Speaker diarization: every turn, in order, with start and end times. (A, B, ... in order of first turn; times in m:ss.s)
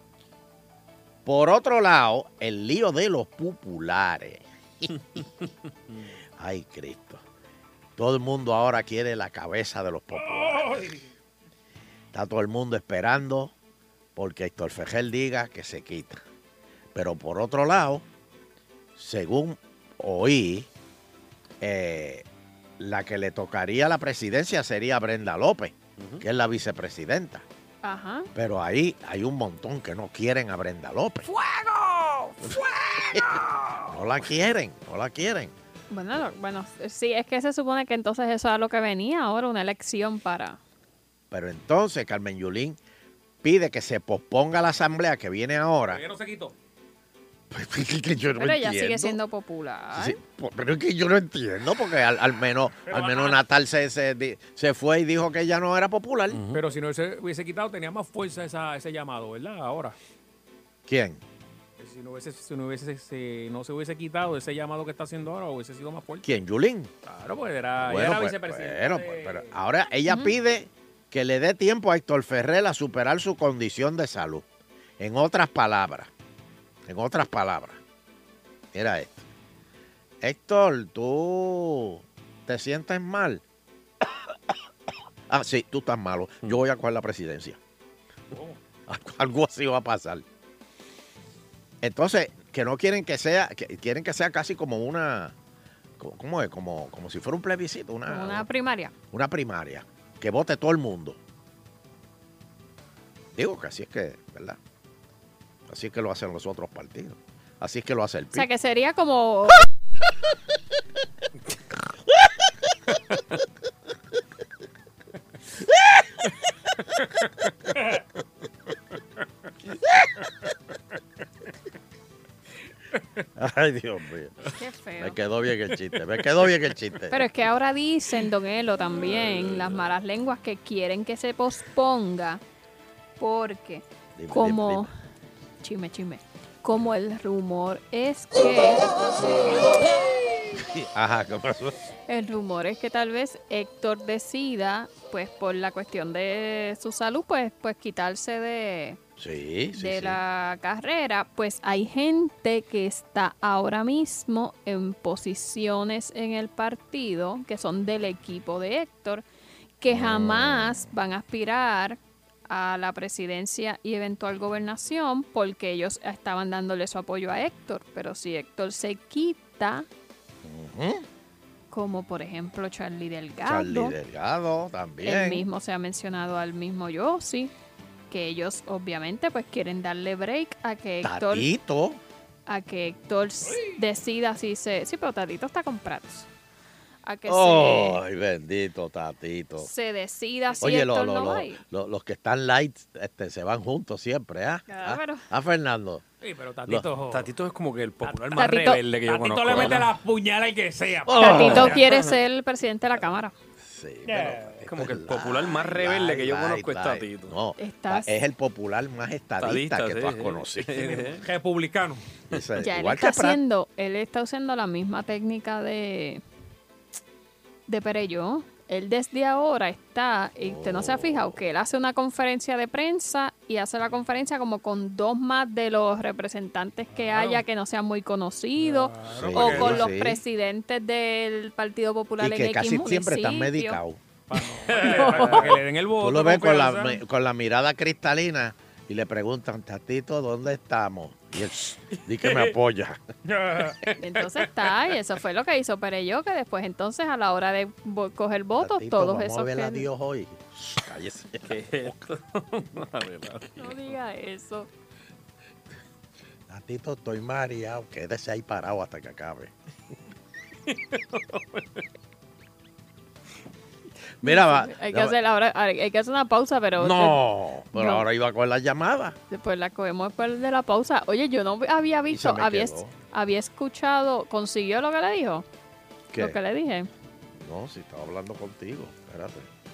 0:01.2-0:04.9 A
0:06.4-0:07.2 A
0:08.0-0:10.7 A
0:10.1-0:11.1 B
0:12.1-0:13.5 A
0:14.2-0:16.2 A
0:16.9-0:18.0 A
0:19.0-0:20.7 A
0:21.6-0:22.2 A
0:22.8-0:27.4 A
0:26.0-0:26.2 C
0:27.8-0:28.3 D
0:28.3-0:31.3 A
0:31.4-0:32.5 D
0:33.9-0:35.5 A
0:35.9-0:40.6 D
0:41.3-0:42.8 A
0:43.4-0:46.0 A
0:45.9-0:46.5 B
0:47.5-0:49.2 A
0:48.4-0:50.2 D
0:49.9-0:56.4 A
0:52.8-0:53.4 B
0:56.3-0:56.6 C
0:56.5-1:00.0 B
1:00.9-1:01.2 A
1:01.8-1:06.2 B
1:06.2-1:06.9 A
1:07.0-1:09.5 B
1:07.8-1:14.4 A
1:10.1-1:10.3 D
1:15.0-1:16.1 A
1:16.8-1:17.8 A
1:18.7-1:19.3 A
1:20.2-1:23.4 A
1:25.3-1:27.6 A
1:28.3-1:28.6 B
1:28.9-1:30.2 A
1:31.8-1:35.3 A
1:36.0-1:38.5 A
1:38.1-1:38.9 D
1:39.1-1:41.2 A
1:43.3-1:44.6 A
1:45.7-1:48.5 A
1:48.3-1:49.6 D
2:03.4-2:04.3 A
2:04.5-2:05.2 D
2:05.0-2:07.2 A
2:07.1-2:12.4 D
2:13.2-2:14.9 D
2:14.2-2:14.9 A
2:15.6-2:18.9 D
2:20.6-2:21.8 A
2:22.1-2:29.0 D
2:29.2-2:30.2 A
2:29.8-2:39.2 D
2:39.8-2:49.9 D
2:39.9-2:40.9 A
2:50.4-2:51.0 A
2:51.7-2:53.9 D
2:53.4-2:55.4 A
2:55.0-2:57.5 D
2:58.1-3:01.5 D
3:01.0-3:02.0 A
3:02.5-3:06.3 D
3:07.0-3:08.0 D
3:07.2-3:09.7 A
3:09.6-3:11.6 D
3:10.6-3:16.0 A
3:14.7-3:15.3 D
3:16.2-3:17.3 B
3:17.1-3:19.9 C
3:18.0-3:21.8 B
3:18.3-3:18.8 D
3:21.1-3:21.8 A
3:21.2-3:23.3 D
3:23.6-3:31.0 A
3:24.1-3:24.6 B
3:24.6-3:27.4 C
3:27.6-3:28.2 D
3:29.4-3:31.2 C
3:30.8-3:32.0 B
3:32.3-3:33.4 A
3:32.6-3:36.2 D
3:37.7-3:53.8 D
3:40.4-3:41.4 A
3:46.9-3:47.4 B
3:48.6-3:49.9 B
3:49.1-3:50.2 A
3:52.2-3:54.0 A
3:54.3-3:57.0 B
3:54.8-3:55.4 D
3:55.0-4:03.0 A
4:02.2-4:02.5 B
4:03.3-4:03.8 B
4:04.0-4:09.9 D
4:08.6-4:11.9 A
4:11.4-4:13.7 C
4:13.6-4:14.7 D
4:16.5-4:19.5 A
4:24.2-4:25.2 A
4:24.2-4:27.2 D
4:26.8-4:29.2 A
4:27.7-4:28.0 D
4:29.3-4:35.4 D
4:32.1-4:32.9 A
4:36.1-4:36.4 A
4:36.2-4:36.9 D
4:37.3-4:39.5 A